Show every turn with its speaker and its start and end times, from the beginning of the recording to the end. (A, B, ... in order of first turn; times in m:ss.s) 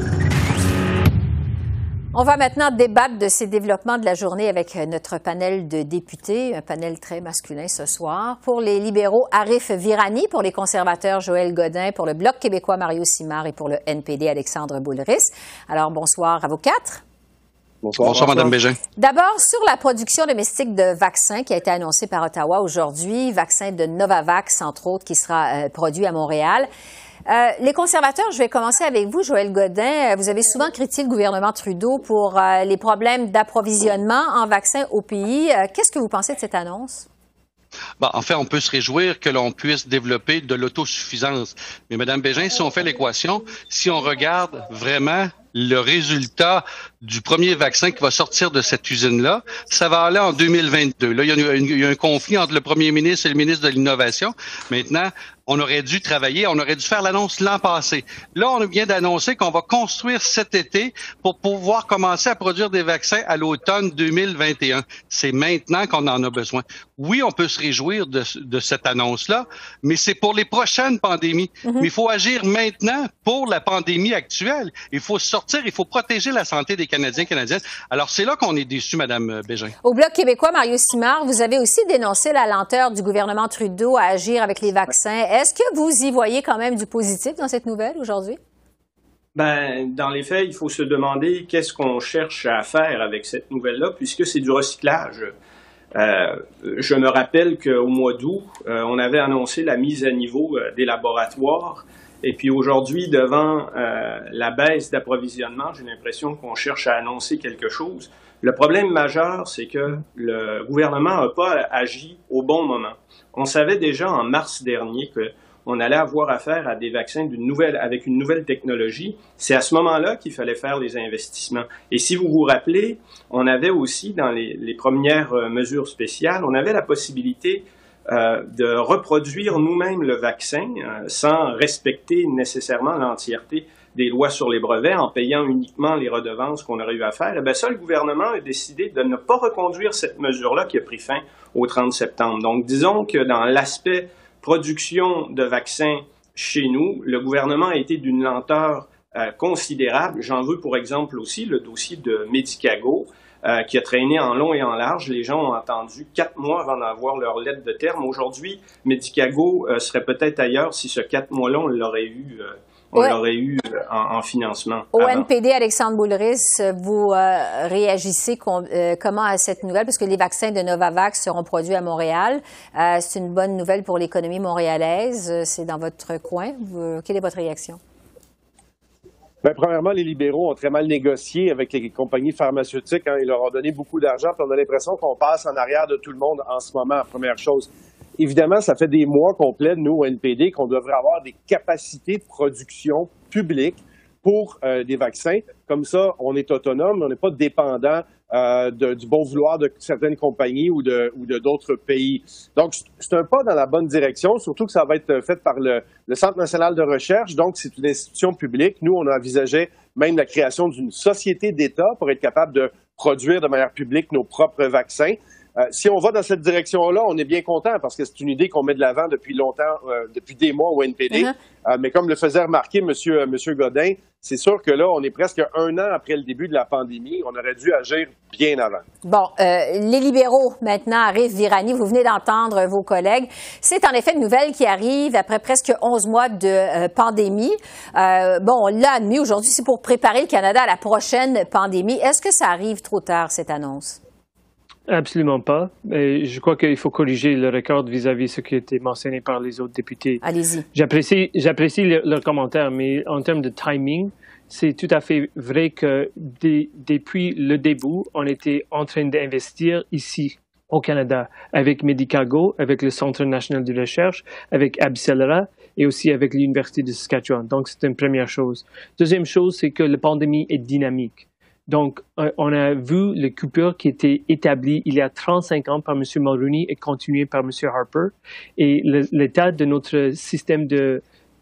0:02.1-0:17.0 A
0:17.8-0:18.5 B
0:18.0-0:18.8 C
0:19.0-0:26.7 A
0:27.3-0:37.1 A
0:38.0-1:19.7 C
1:19.8-1:28.4 A
1:29.3-1:35.3 D
1:35.9-2:45.3 D
2:44.9-2:57.8 A
2:59.4-3:48.8 B
3:49.0-4:04.0 A
4:04.9-4:10.2 E
4:10.2-4:10.7 A
4:10.7-4:41.0 E